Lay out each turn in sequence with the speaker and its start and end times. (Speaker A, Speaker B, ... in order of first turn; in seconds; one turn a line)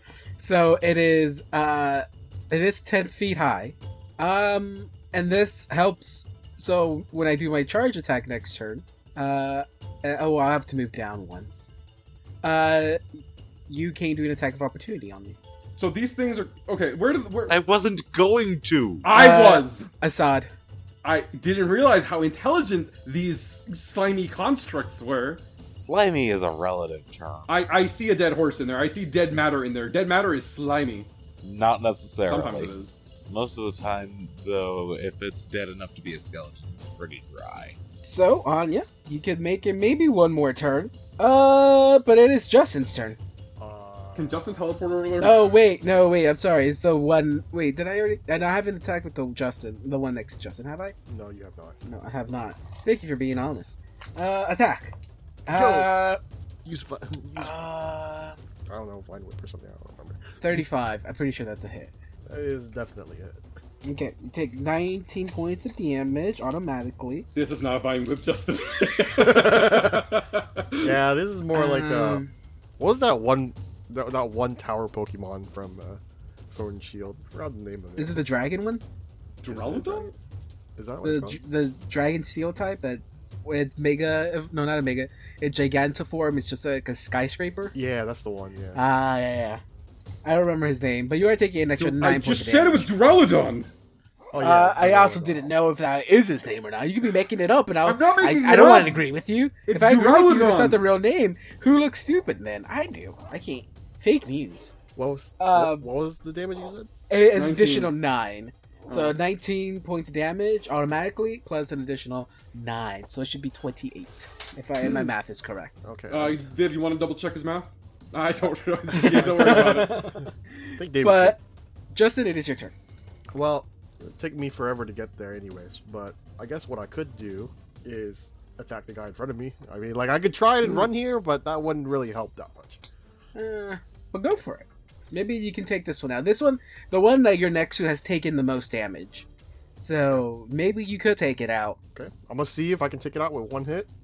Speaker A: 0.4-11.7
Speaker A: 12.4-15.4
Speaker B: 15.8-17.6
Speaker C: 17.5-19.1
Speaker B: 19.0-19.9
Speaker A: 19.1-20.5
Speaker B: 21.0-25.4
Speaker C: 25.7-27.5
Speaker B: 27.5-31.1
Speaker C: 31.4-37.8
Speaker B: 32.3-33.0
Speaker A: 38.0-43.2
Speaker D: 43.6-44.6
Speaker B: 44.2-45.4
Speaker A: 45.2-51.0
Speaker D: 51.1-51.8
Speaker A: 51.8-55.0
Speaker D: 55.5-56.0
Speaker A: 55.5-56.2
Speaker D: 56.6-57.5
Speaker A: 57.4-58.4
Speaker D: 58.7-60.2
Speaker A: 60.4-61.9
Speaker D: 62.3-63.4
Speaker A: 63.8-67.3
Speaker B: 67.3-71.0
Speaker D: 69.2-70.1
Speaker D: 70.8-72.2
Speaker A: 71.5-72.3
Speaker D: 72.8-78.2
Speaker A: 78.0-78.8
Speaker B: 79.4-80.1
Speaker D: 79.5-80.1
Speaker D: 80.8-81.4
Speaker A: 81.0-87.7
Speaker D: 87.7-88.8
Speaker A: 88.7-89.6
Speaker A: 90.2-92.9
Speaker B: 91.8-93.7
Speaker D: 94.3-95.5
Speaker A: 94.4-104.7
Speaker B: 97.8-99.0
Speaker B: 99.7-100.8
Speaker D: 105.0-106.9
Speaker A: 105.4-105.9
Speaker A: 107.1-115.8
Speaker B: 107.3-107.9
Speaker B: 108.9-109.2
Speaker D: 115.8-116.4
Speaker B: 116.1-120.1
Speaker A: 118.9-121.4
Speaker D: 119.1-120.2
Speaker D: 120.8-121.4
Speaker A: 121.9-122.7
Speaker D: 123.3-132.8
Speaker A: 133.3-141.8
Speaker D: 141.9-143.9